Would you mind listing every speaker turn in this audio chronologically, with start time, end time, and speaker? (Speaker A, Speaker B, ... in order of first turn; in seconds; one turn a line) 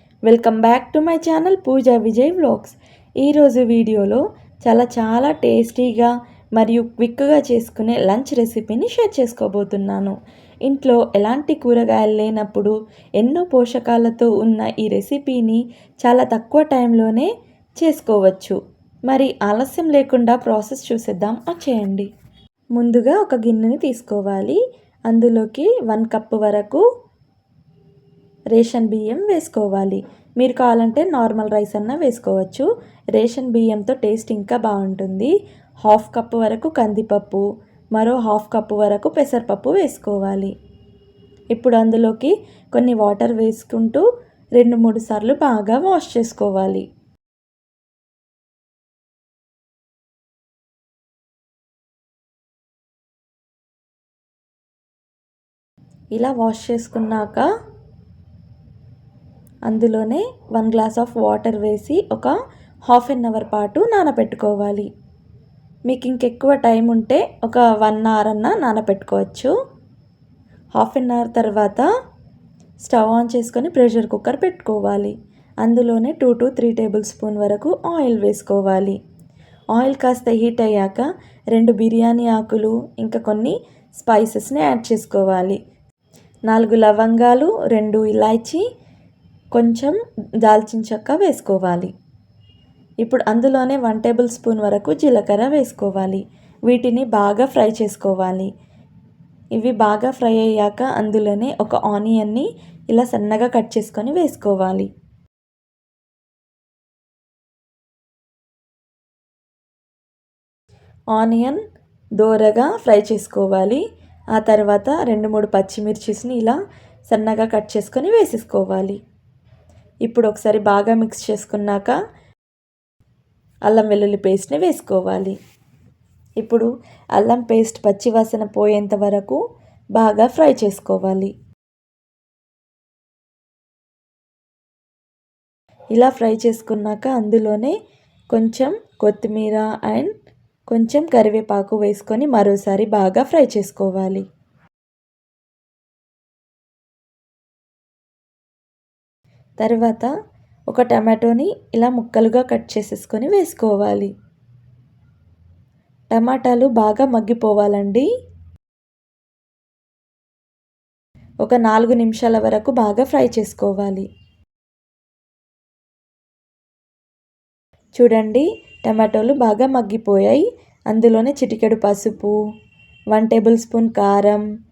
Speaker A: 0.2-10.1
Speaker A: 10.6-22.1
Speaker A: 22.8-26.8
Speaker A: 28.5-35.3
Speaker A: 35.8-37.4
Speaker A: 37.9-40.5
Speaker A: 41.5-44.0
Speaker A: 44.6-46.8
Speaker A: 56.1-57.5
Speaker A: 59.7-62.3
Speaker A: 62.9-64.9
Speaker A: 65.9-69.5
Speaker A: 70.8-71.9
Speaker A: 72.8-79.0
Speaker A: 79.7-85.6
Speaker A: 86.5-88.6
Speaker A: 89.5-91.9
Speaker A: 93.0-98.5
Speaker A: 99.5-104.9
Speaker A: 111.1-111.6
Speaker A: 112.2-113.8
Speaker A: 114.3-119.0
Speaker A: 120.0-121.9
Speaker A: 123.7-125.3
Speaker A: 126.4-129.4
Speaker A: 129.9-131.3
Speaker A: 135.9-137.7
Speaker A: 138.3-140.1
Speaker A: 140.7-144.2
Speaker A: 149.6-150.1
Speaker A: 150.7-154.1
Speaker A: 156.1-158.1
Speaker A: 161.4-164.1
Speaker A: 167.9-172.4
Speaker A: 173.1-174.4